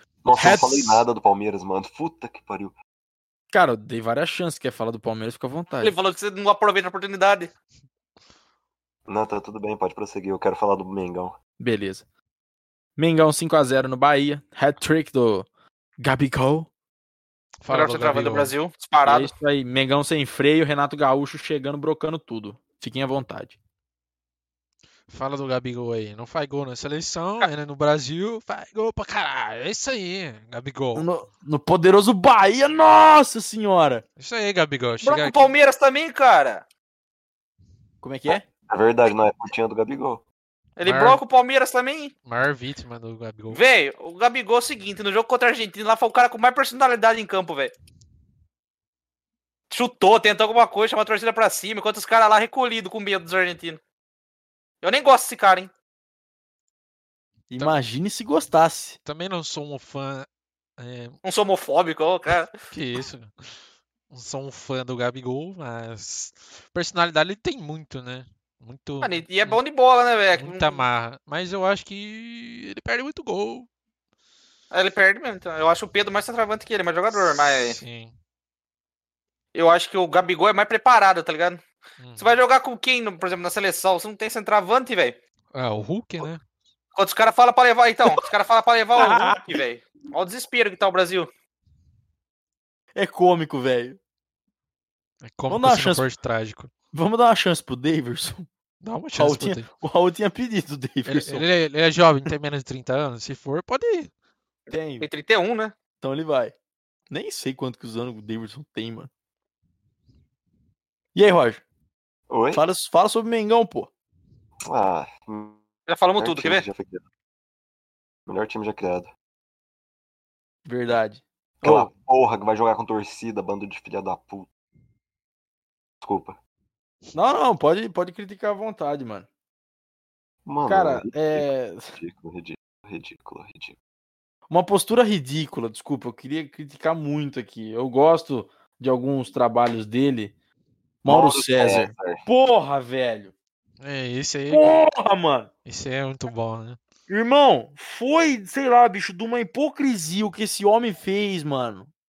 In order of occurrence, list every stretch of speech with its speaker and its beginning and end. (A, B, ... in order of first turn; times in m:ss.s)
0:00.2-0:02.7 A
0:00.4-0:01.0 B
0:03.5-0:06.0 B
0:05.8-0:07.5 C
0:09.1-0:11.4 A
0:11.6-0:12.0 B
0:13.0-0:15.5 B
0:16.0-0:16.7 B
0:17.6-0:18.5 D
0:17.7-0:19.3 C
0:19.0-0:23.5 B
0:25.1-0:31.1 D
0:30.9-0:34.0 B
0:34.2-0:35.5 D
0:35.0-0:36.6 C
0:38.0-0:38.4 B
0:38.7-0:40.2 A
0:40.8-0:42.1 C
0:40.8-0:41.2 D
0:42.2-0:43.6 D
0:43.5-0:47.7 C
0:49.7-0:53.8 C
0:54.8-0:55.7 C
0:57.5-0:59.0 B
0:59.0-1:00.3 D
1:00.8-1:01.2 D
1:01.2-1:02.5 C
1:02.7-1:03.5 D
1:04.1-1:09.6 D
1:09.0-1:10.8 C
1:10.4-1:13.7 D
1:14.7-1:17.8 C
1:17.6-1:18.1 D
1:19.5-1:21.6 C
1:22.0-1:22.4 D
1:22.2-1:25.2 C
1:25.5-1:26.4 D
1:26.9-1:31.3 C
1:29.0-1:29.6 B
1:32.9-1:34.0 B
1:35.2-1:36.7 D
1:35.5-1:36.0 B
1:36.9-1:38.5 B
1:38.8-1:39.7 D
1:39.1-1:41.4 B
1:41.0-1:44.1 D
1:44.7-1:45.0 B
1:45.0-1:45.7 C
1:46.0-1:46.5 B
1:47.1-1:49.1 B
1:51.1-1:51.6 B
1:52.3-1:52.6 A
1:52.5-1:53.9 B
1:54.6-1:55.6 A
1:55.9-1:56.6 C
1:56.2-1:57.0 A
1:58.3-1:59.1 A
2:00.6-2:01.9 B
2:01.6-2:04.5 A
2:06.0-2:06.4 A
2:07.1-2:09.3 B
2:10.4-2:13.8 A
2:10.6-2:11.9 B
2:14.5-2:20.3 B
2:21.0-2:23.3 B
2:21.1-2:22.2 A
2:23.8-2:24.8 D
2:24.5-2:25.5 B
2:25.6-2:26.8 D
2:27.1-2:31.9 B